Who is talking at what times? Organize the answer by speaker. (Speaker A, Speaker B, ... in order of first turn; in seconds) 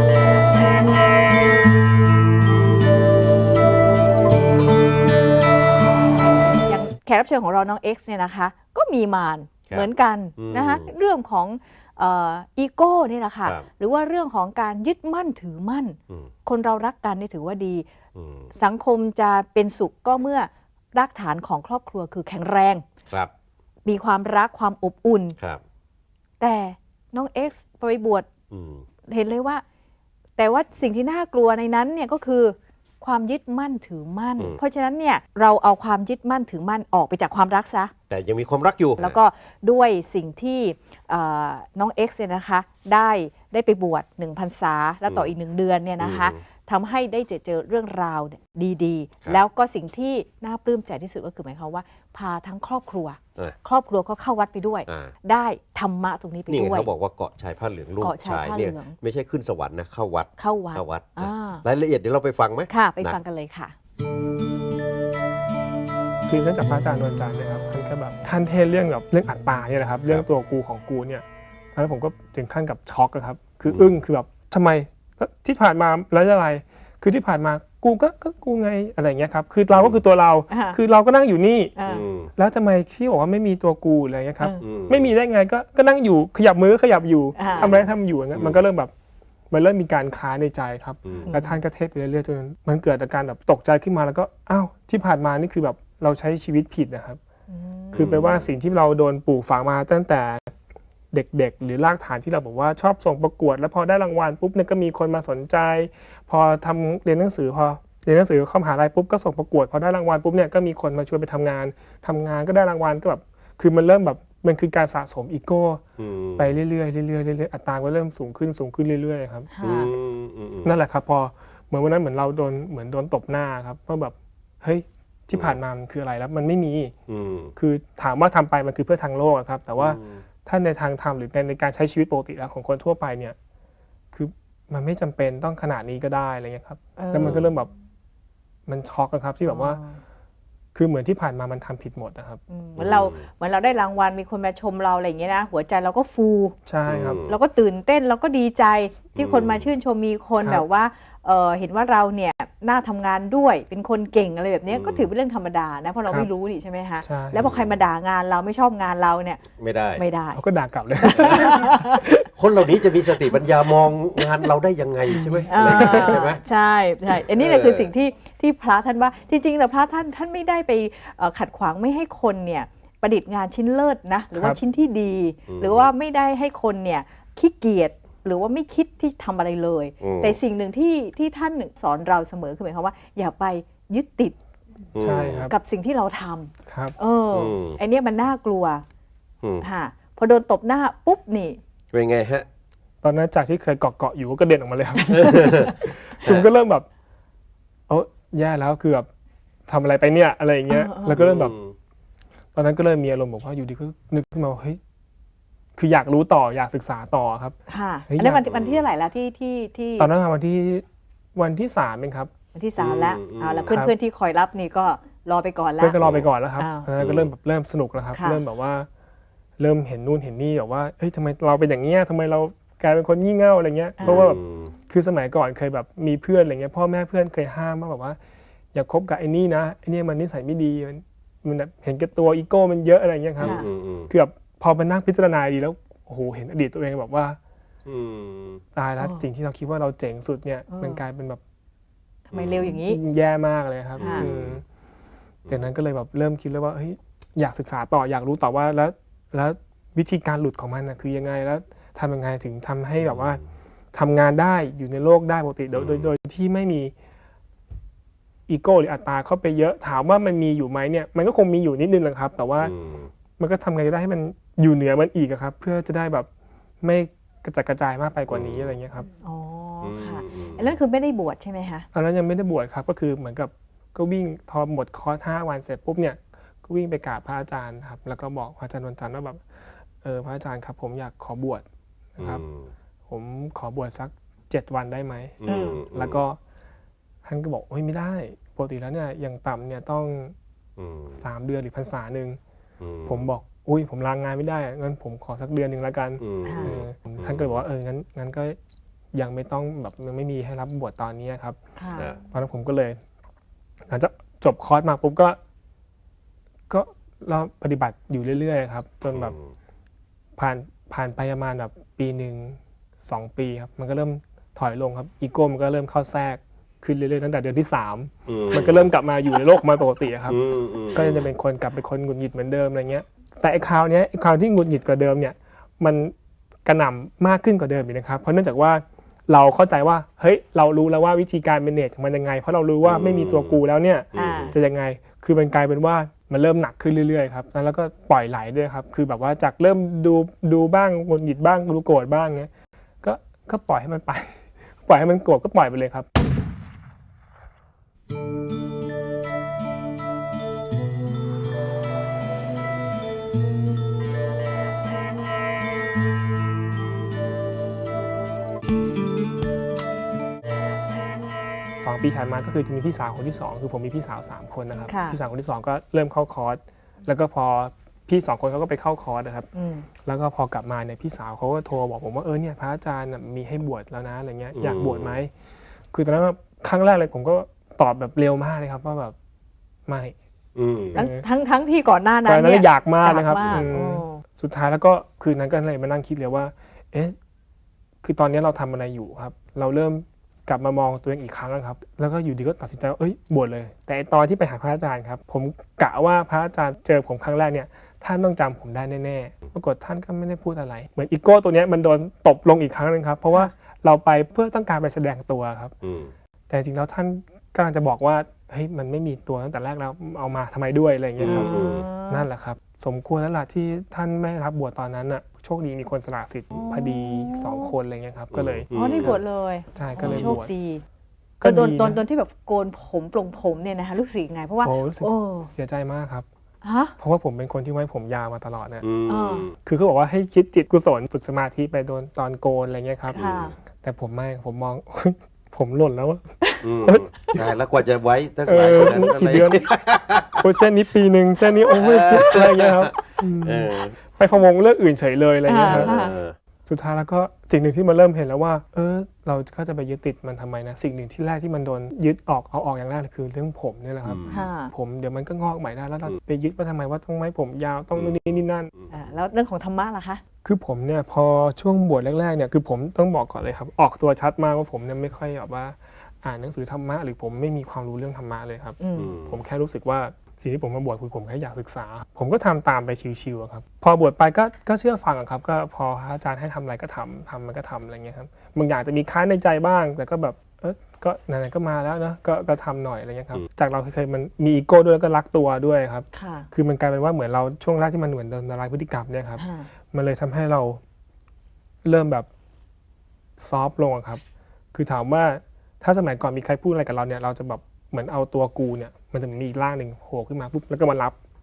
Speaker A: 6.7-17.9, 18.5-22.8, 23.8-25.4, 26.4-28.3, 29.1-29.6, 30.4-37.9, 39.0-56.9, 58.0-59.0, 60.4-61.6, 62.7-63.7, 80.5-80.8, 81.8-82.0, 87.3-87.7, 91.3-91.6, 97.5-98.2, 119.5-119.9, 137.0-137.4, 139.4-140.0, 142.5-146.5, 147.2-159.4, 159.9-160.4, 161.0-162.1, 165.5-184.3, 185.5-188.8, 189.6-191.6, 200.7-201.2, 207.7-210.1, 212.5-216.0, 216.6-216.9, 218.1-218.4, 224.0-224.2, 233.4-233.7, 240.7-241.0, 242.3-243.0, 244.0-244.3, 269.2-271.9, 285.4-285.8, 296.4-296.8, 301.8-302.1, 334.1-334.6, 364.9-365.2, 369.5-369.9, 380.9-384.2, 411.2-412.2, 416.5-417.7, 418.7-420.8, 421.4-425.5, 426.6-426.9, 429.1-429.5, 433.1-433.5, 445.5-446.1, 454.3-454.7, 458.9-460.2, 468.8-469.2, 486.1-486.5, 489.4-489.7
Speaker B: 9.7-10.9, 18.1-18.5, 28.5-28.8, 38.1-39.2, 45.1-45.3, 46.0-46.4, 54.9-55.1, 56.5-63.2, 73.7-73.9, 79.7-80.0, 81.9-82.3, 84.6-85.1, 87.5-88.6, 91.0-91.3, 97.9-98.5, 116.0-116.6, 119.6-120.8, 125.3-125.6, 127.1-127.5, 129.8-130.2, 137.2-137.5, 142.8-143.2, 146.9-147.4, 149.1-149.7, 154.7-155.1, 157.4-157.8, 159.6-160.0, 161.2-161.5, 162.3-166.4, 167.1-167.9, 175.5-175.9, 180.0-180.4, 184.9-185.5, 187.3-187.8, 191.9-192.4, 195.1-195.7, 201.1-201.7, 208.5-208.8, 212.8-213.7, 216.0-216.3, 217.0-217.3, 224.0-224.7, 233.4-234.1, 237.8-238.6, 242.3-242.7, 244.0-244.6, 253.0-253.4, 255.7-256.1, 262.6-263.1, 268.3-268.7, 269.8-270.8, 282.2-282.7, 285.4-286.2, 290.8-291.2, 292.8-293.3, 296.2-297.6, 309.0-309.5, 318.3-318.9, 320.2-321.3, 332.8-333.6, 334.1-334.6, 374.5-375.2, 380.6-381.0, 383.4-383.7, 405.8-406.1, 411.2-411.9, 418.3-419.2, 420.0-420.3, 428.8-429.5, 433.1-433.5, 436.6-440.4, 441.7-443.9, 445.6-446.3, 454.0-454.5, 457.9-459.0, 468.9-469.4
Speaker C: 66.3-71.2, 71.7-81.7, 82.4-88.9, 89.5-97.2, 97.9-100.5, 101.1-115.8, 116.4-119.5, 120.6-126.9, 127.6-133.3, 134.1-137.7, 138.7-139.8, 140.7-142.4, 146.7-147.2, 157.0-157.4, 160.3-162.2, 165.2-166.2, 185.0-185.5, 186.7-186.9, 193.0-196.8, 197.9-199.1, 199.7-201.6, 202.5-204.8, 205.8-207.6, 208.1-208.4, 210.0-210.8, 211.3-212.3, 213.7-213.9, 215.8-218.9, 219.6-228.2, 228.7-237.4, 238.7-241.4, 242.6-244.6, 245.5-253.4, 253.9-256.9, 258.5-262.7, 263.4-266.3, 266.8-269.1, 271.9-279.4, 280.0-281.6, 282.2-282.4, 283.1-286.4, 287.2-290.3, 291.1-292.4, 293.1-298.6, 299.1-301.6, 302.3-303.0, 303.9-305.4, 306.7-309.3, 310.4-320.4, 320.9-326.1, 326.6-342.5, 343.0-346.1, 361.8-369.5, 370.0-375.3, 375.9-379.1, 379.9-380.1, 380.9-381.2, 382.2-387.1, 388.0-405.7, 406.5-419.2, 419.7-420.5, 421.4-422.0, 424.6-426.2, 427.0-428.9, 429.6-433.2, 433.8-437.2, 438.4-439.6, 440.4-446.1, 446.6-458.7, 460.4-490.8, 491.8-492.3, 493.4-494.2, 494.7-501.1